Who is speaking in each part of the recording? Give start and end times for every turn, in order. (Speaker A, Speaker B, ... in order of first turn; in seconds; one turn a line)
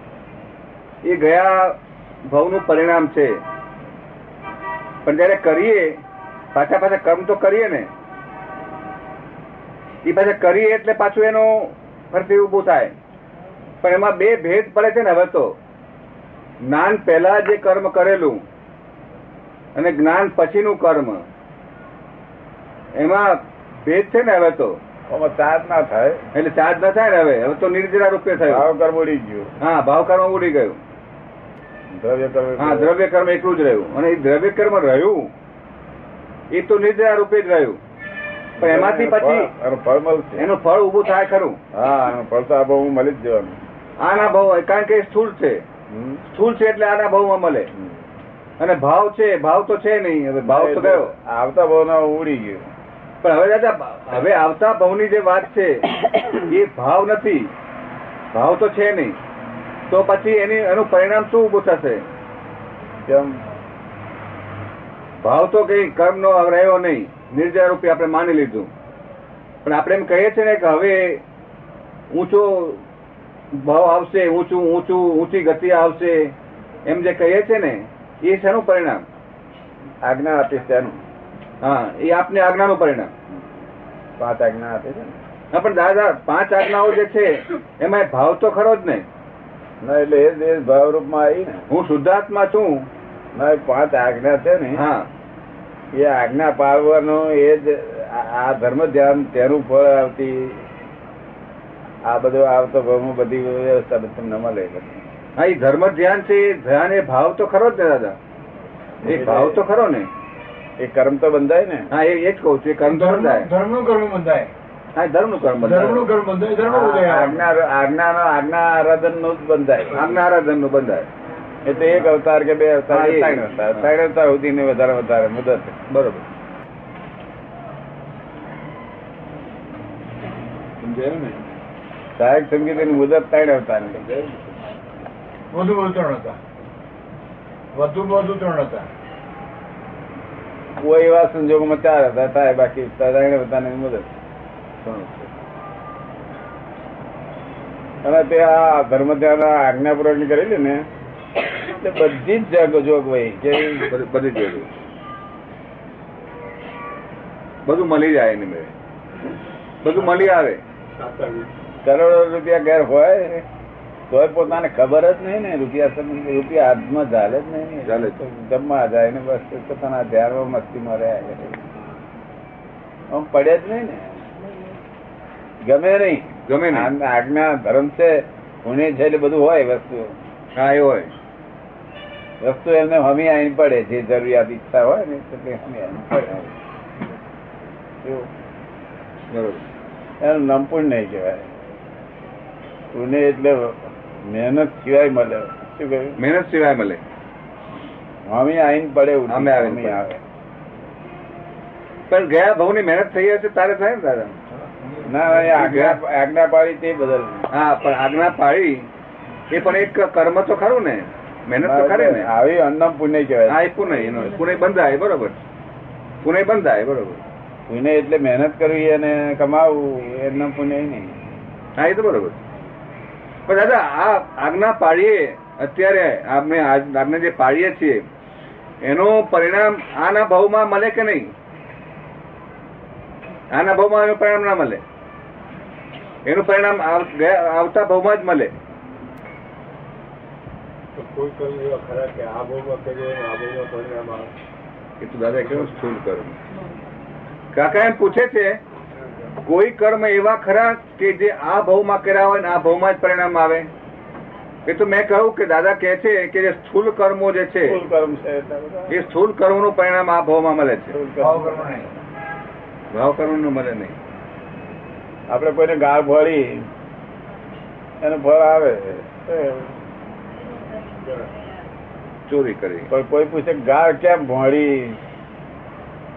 Speaker A: 1.0-1.8
Speaker A: 2.3-3.4
Speaker A: 5.0-5.9
Speaker A: 6.5-7.9
Speaker A: 10.0-12.9
Speaker A: 13.8-15.5
Speaker A: 16.6-18.4
Speaker A: 19.8-21.2
Speaker A: 23.0-24.8
Speaker B: 25.1-26.2
Speaker A: 26.3-28.6
Speaker B: 28.4-29.5
Speaker A: 29.6-30.8
Speaker B: 31.9-32.9
Speaker A: 32.6-35.3
Speaker A: 36.5-37.8
Speaker B: 38.6-40.4
Speaker A: 38.6-39.5
Speaker A: 40.4-41.6
Speaker B: 41.7-43.6
Speaker A: 44.0-45.6
Speaker B: 45.9-46.2
Speaker A: 46.3-47.7
Speaker B: 47.7-48.0
Speaker A: 48.6-51.1
Speaker B: 50.5-52.7
Speaker A: 53.2-57.5
Speaker A: 58.3-59.2
Speaker A: 59.9-62.0
Speaker B: 63.1-63.4
Speaker A: 65.2-68.7
Speaker A: 69.6-71.2
Speaker A: 72.1-72.8
Speaker A: 73.6-76.3
Speaker A: 76.8-79.0
Speaker B: 80.0-81.0
Speaker A: 81.6-83.1
Speaker B: 84.2-85.2
Speaker A: 85.5-89.0
Speaker B: 89.8-91.6
Speaker A: 91.7-92.9
Speaker B: 93.3-94.8
Speaker A: 94.8-95.1
Speaker B: 95.9-100.6
Speaker B: 102.0-105.0
Speaker A: 105.4-108.2
Speaker A: 109.0-110.1
Speaker B: 109.0-109.6
Speaker B: 110.8-111.9
Speaker A: 111.9-113.5
Speaker C: 112.8-114.5
Speaker A: 115.0-116.1
Speaker C: 115.6-117.4
Speaker B: 116.6-120.2
Speaker A: 119.9-121.1
Speaker B: 121.6-125.7
Speaker A: 122.9-123.9
Speaker A: 125.9-126.2
Speaker A: 130.8-131.4
Speaker B: 132.2-134.1
Speaker C: 135.5-136.4
Speaker C: 137.7-138.9
Speaker B: 140.8-144.1
Speaker A: 144.8-145.3
Speaker B: 148.0-150.8
Speaker B: 151.5-153.9
Speaker A: 153.9-154.7
Speaker A: 157.7-158.7
Speaker A: 159.8-160.6
Speaker C: 160.0-160.2
Speaker C: 161.0-161.5
Speaker B: 161.8-163.4
Speaker B: 164.1-171.6
Speaker A: 167.8-168.2
Speaker B: 173.1-174.2
Speaker B: 175.6-180.1
Speaker A: 176.5-176.9
Speaker A: 180.5-181.1
Speaker B: 182.4-186.3
Speaker A: 186.2-186.5
Speaker A: 189.3-189.6
Speaker B: 190.2-191.5
Speaker B: 192.9-196.2
Speaker A: 196.2-197.0
Speaker B: 198.3-200.2
Speaker A: 199.3-200.0
Speaker A: 202.1-204.3
Speaker B: 205.0-207.4
Speaker A: 205.4-206.0
Speaker A: 207.5-208.9
Speaker A: 209.5-212.3
Speaker B: 211.6-213.6
Speaker A: 213.5-215.4
Speaker A: 216.2-217.2
Speaker B: 217.7-221.1
Speaker A: 221.8-222.4
Speaker A: 223.5-228.0
Speaker A: 228.8-231.2
Speaker A: 233.5-234.8
Speaker A: 236.2-238.5
Speaker C: 240.9-244.3
Speaker A: 245.0-246.4
Speaker A: 247.5-248.6
Speaker A: 249.4-253.7
Speaker A: 254.7-257.8
Speaker B: 257.6-258.9
Speaker A: 258.9-260.9
Speaker B: 260.9-261.9
Speaker C: 261.2-261.9
Speaker A: 262.9-263.9
Speaker B: 265.3-266.6
Speaker B: 268.0-269.7
Speaker A: 272.3-272.9
Speaker B: 272.9-275.0